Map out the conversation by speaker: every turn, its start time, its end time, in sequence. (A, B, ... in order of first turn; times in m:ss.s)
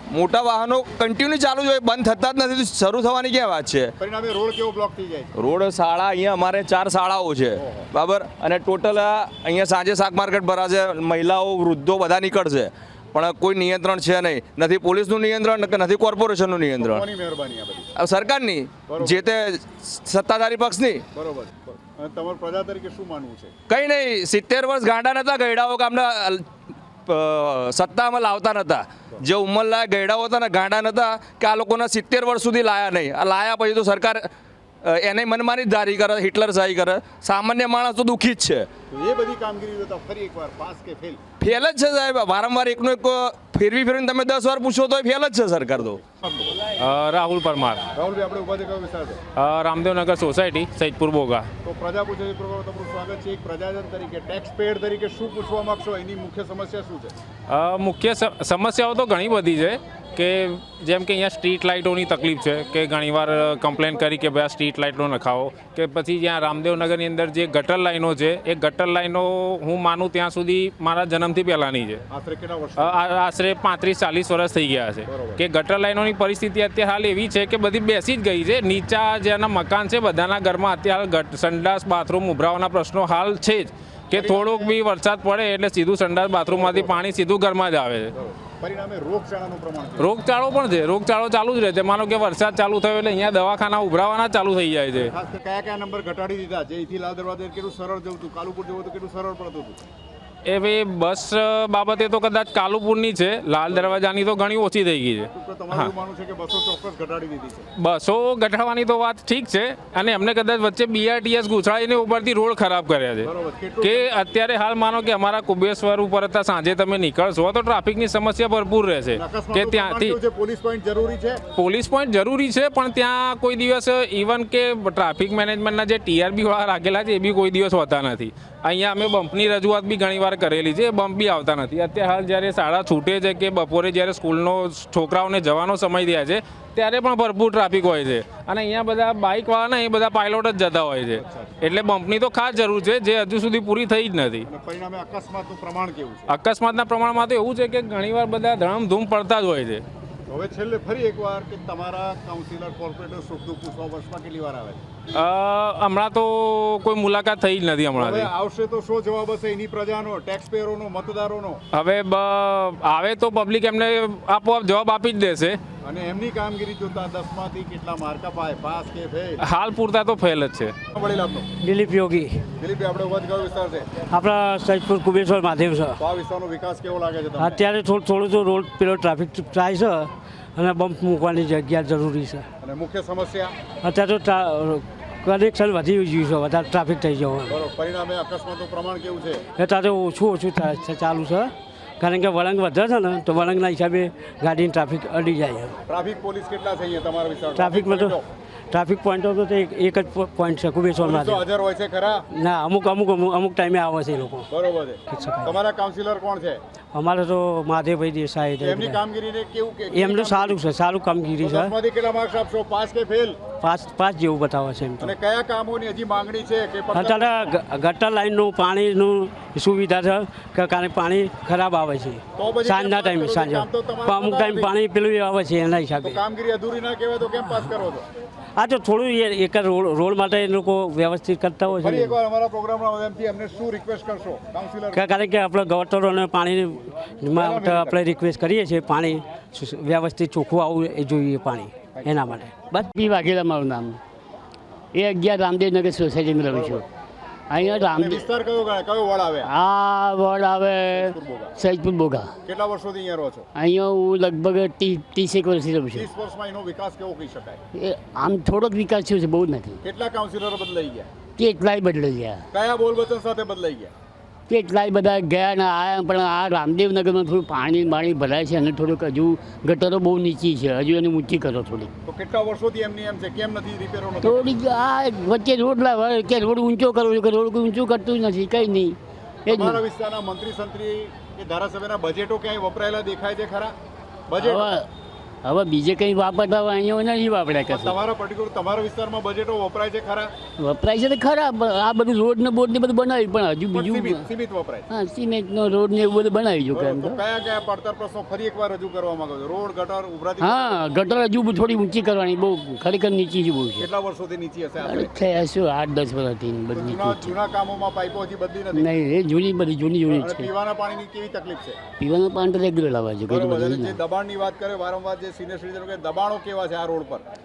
0:00.1-0:03.9 A
0:04.0-0:05.3 B
0:05.4-0:17.0 A
0:07.6-0:07.9 B
0:16.8-0:17.9 B
0:18.0-0:21.0 A
0:18.9-0:19.2 B
0:21.1-0:23.5 B
0:23.7-0:26.5 A
0:27.0-0:34.3 A
0:34.8-0:38.7 A
0:38.9-0:41.2 B
0:41.4-0:46.0 A
0:46.2-0:46.6 B
0:46.8-0:47.8 C
0:47.9-0:49.2 B
0:49.4-0:51.5 C
0:51.6-0:57.1 B
0:57.5-1:12.0 C
1:12.1-1:13.0 B
1:12.8-1:28.1 C
1:15.1-1:15.4 B
1:24.1-1:24.7 B
1:26.5-1:27.0 B
1:28.1-1:30.1 B
1:30.0-1:35.1 C
1:34.9-1:39.8 B
1:40.4-1:45.9 C
1:43.7-1:44.0 B
1:45.3-1:47.7 B
1:47.8-1:53.3 C
1:53.2-1:54.1 B
1:53.8-2:00.2 C
1:59.2-2:01.4 B
2:01.6-2:24.5 C
2:21.2-2:21.5 B
2:24.5-2:26.3 B
2:26.3-2:29.8 C
2:30.3-2:34.8 B
2:35.1-2:38.3 C
2:38.0-2:41.6 B
2:41.7-2:45.6 C
2:45.8-2:49.4 B
2:49.4-2:50.7 C
2:50.9-2:51.5 B
2:51.6-2:52.4 D
2:52.6-2:53.9 B
2:54.1-2:56.0 D
2:56.0-2:57.6 B
2:57.4-3:02.4 D
3:02.6-3:03.5 B
3:03.8-3:07.6 D
3:07.5-3:09.4 B
3:09.6-3:15.7 D
3:15.9-3:18.2 B
3:17.6-3:18.2 D
3:18.7-3:21.4 D
3:21.0-3:22.2 B
3:22.3-3:24.5 D
3:24.5-3:26.6 B
3:25.1-3:25.5 D
3:26.9-3:29.0 D
3:28.6-3:30.6 B
3:29.9-3:31.7 D
3:31.4-3:33.4 B
3:33.6-3:35.1 D
3:35.0-3:37.5 B
3:36.9-3:46.2 D
3:42.4-3:44.7 B
3:46.0-3:48.0 B
3:48.6-3:52.2 D
3:51.8-3:55.0 B
3:54.9-4:02.5 D
3:57.4-3:58.0 B
4:01.9-4:02.4 B
4:02.7-4:04.0 E
4:04.9-4:06.8 E
4:06.5-4:06.8 B
4:07.5-4:08.2 E
4:07.6-4:09.5 B
4:09.4-4:12.3 E
4:10.9-4:11.5 B
4:12.4-4:13.5 B
4:13.5-4:16.1 E
4:15.9-4:17.6 B
4:17.7-4:19.8 E
4:19.8-4:21.1 B
4:21.4-4:22.4 E
4:22.5-4:23.9 B
4:24.5-4:31.9 E
4:32.1-4:34.5 B
4:34.2-4:39.8 E
4:39.5-4:43.7 B
4:44.3-4:44.8 B
4:44.4-4:44.9 E
4:45.4-4:48.0 E
4:47.7-4:50.3 B
4:50.6-4:54.2 E
4:53.7-4:54.8 B
4:54.9-4:57.2 E
4:56.7-5:00.8 B
5:00.4-5:03.9 E
5:03.8-5:05.1 B
5:04.8-5:07.4 E
5:06.7-5:08.9 B
5:08.7-5:10.5 E
5:10.1-5:11.8 B
5:12.0-5:14.0 E
5:13.3-5:17.2 B